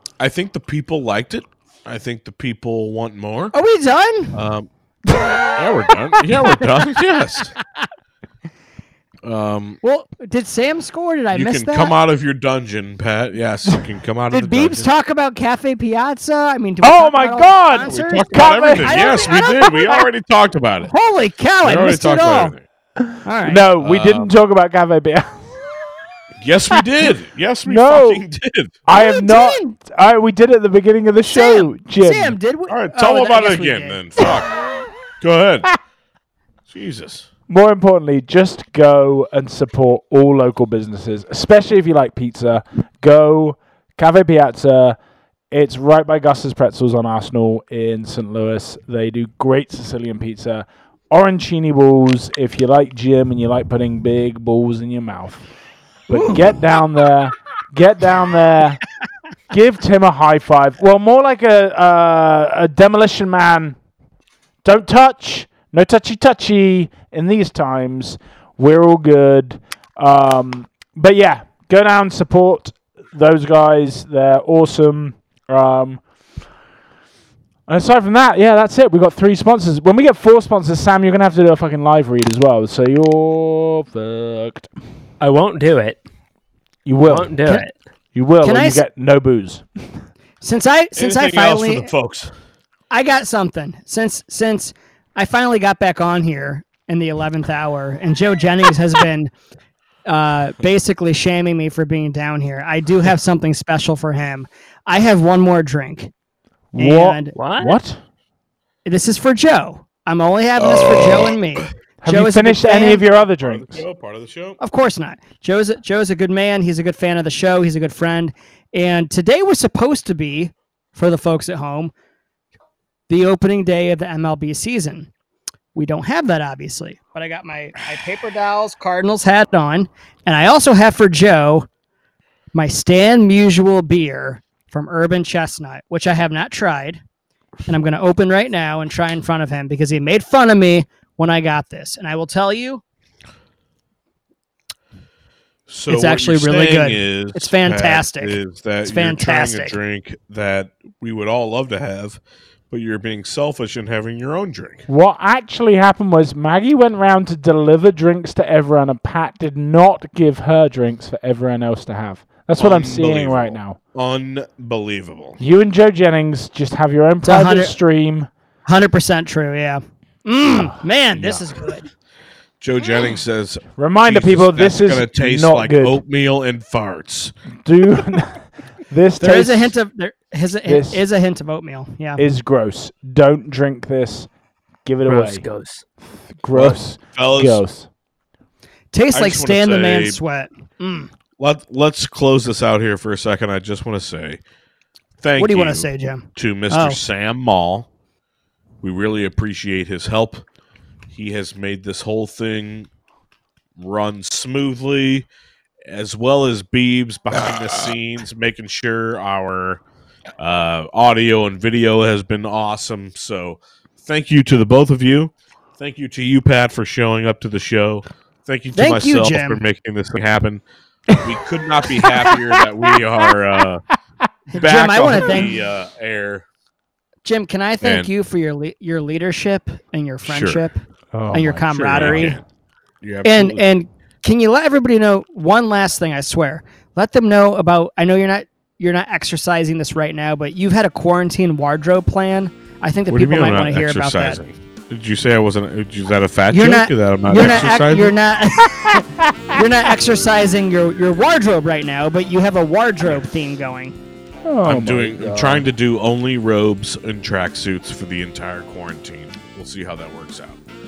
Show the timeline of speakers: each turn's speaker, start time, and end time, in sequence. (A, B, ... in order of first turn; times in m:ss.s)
0:00.2-0:03.5 A
0:03.5-0:04.4 B
0:04.3-0:04.7 A
0:05.5-0:07.6 A
0:09.2-0:09.8 A
0:09.8-0:11.9 B
0:11.3-0:14.9 A
0:14.3-0:19.7 B
0:16.8-0:20.0 C
0:17.9-0:20.9 A
0:20.9-0:22.5 B
0:21.6-0:22.6 A
0:23.0-0:25.6 C
0:23.2-0:23.6 B
0:23.8-0:24.3 A
0:26.4-0:28.8 A
0:27.7-0:28.2 C
0:28.8-0:32.4 C
0:28.9-0:29.8 B
0:31.3-0:34.0 B
0:32.7-0:34.6 A
0:35.2-0:35.8 A
0:36.7-0:37.3 A
0:37.5-0:45.0 C
0:45.5-0:55.5 C
0:56.1-0:58.8 C
0:59.5-1:03.8 C
1:04.6-1:16.0 C
1:17.7-1:24.7 C
1:25.2-1:26.0 D
1:26.8-1:27.6 C
1:27.1-1:27.7 D
1:28.1-1:30.0 C
1:28.4-1:28.8 B
1:30.4-1:31.9 B
1:31.0-1:32.3 A
1:32.9-1:39.3 B
1:40.1-1:46.1 B
1:46.7-1:48.0 C
1:46.8-1:47.3 B
1:47.4-1:47.8 D
1:48.8-1:53.0 B
1:52.0-1:53.8 C
1:53.0-1:54.6 A
1:54.6-2:01.9 B
2:03.1-2:05.1 B
2:05.8-2:11.7 B
2:12.5-2:17.0 B
2:17.7-2:22.8 B
2:25.7-2:34.9 A
2:25.9-2:29.8 B
2:34.9-2:43.8 C
2:42.6-2:45.4 A
2:45.4-2:48.3 C
2:47.2-2:47.7 B
2:48.7-2:51.9 B
2:50.5-2:51.5 C
2:52.6-2:57.3 A
2:53.8-2:56.0 C
2:57.6-2:59.8 C
2:59.2-3:02.2 B
3:00.7-3:01.0 C
3:02.2-3:04.3 C
3:04.8-3:05.5 C
3:05.1-3:05.8 D
3:06.3-3:07.9 C
3:06.5-3:07.6 A
3:08.9-3:11.1 B
3:09.1-3:10.2 A
3:11.4-3:14.4 A
3:15.2-3:17.9 A
3:15.4-3:17.0 B
3:18.8-3:20.4 A
3:21.1-3:22.9 A
3:23.8-3:25.3 A
3:25.9-3:29.8 A
3:30.4-3:43.9 A
3:38.8-3:39.6 B
3:41.9-3:43.6 C
3:44.5-3:45.5 B
3:44.6-3:46.4 A
3:47.2-3:52.4 B
3:47.8-3:48.1 A
3:50.3-3:50.6 A
3:51.1-3:51.6 C
3:51.7-3:52.4 A
3:53.0-3:53.7 A
3:53.2-4:04.4 B
4:03.1-4:08.1 A
4:06.5-4:14.0 B
4:14.4-4:15.7 C
4:14.6-4:20.6 A